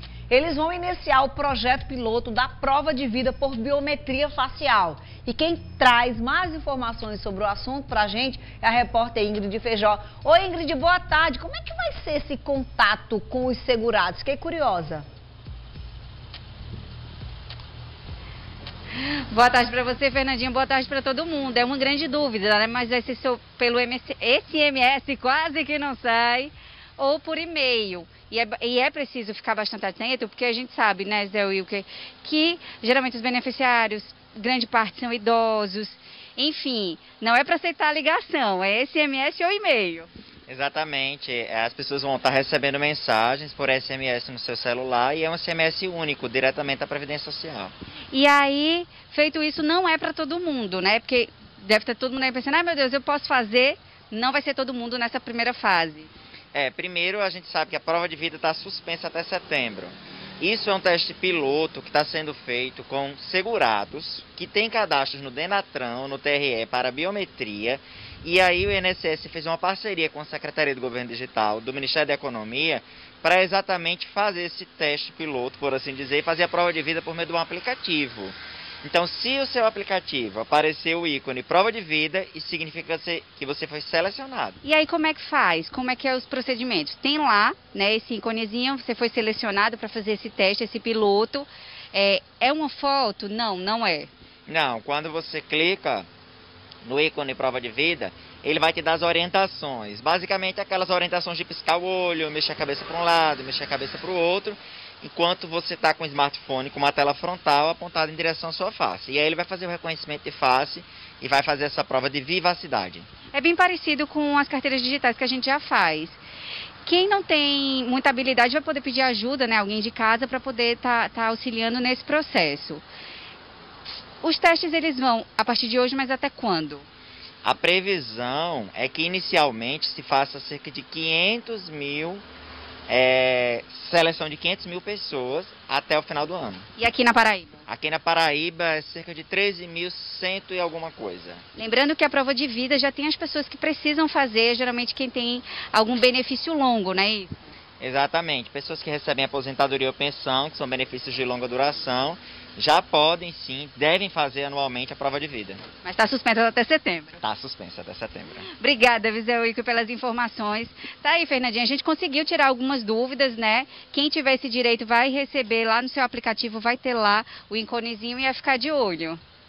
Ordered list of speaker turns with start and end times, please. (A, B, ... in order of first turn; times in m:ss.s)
0:00.3-0:15.0 A
0:18.9-0:40.1 B
0:40.5-0:47.7 C
0:48.1-0:56.1 B
0:56.5-1:24.6 C
1:24.6-1:34.1 B
1:34.5-1:36.1 C
1:36.8-1:53.1 C
1:53.3-1:56.2 B
1:56.8-2:02.8 B
2:04.2-2:06.8 B
2:07.4-2:12.2 C
2:12.9-2:16.7 C
2:16.8-2:17.6 B
2:17.7-2:21.4 C
2:21.6-2:27.4 B
2:27.8-2:35.6 C
2:35.8-2:37.2 B
2:37.2-2:38.5 C
2:38.5-2:49.2 B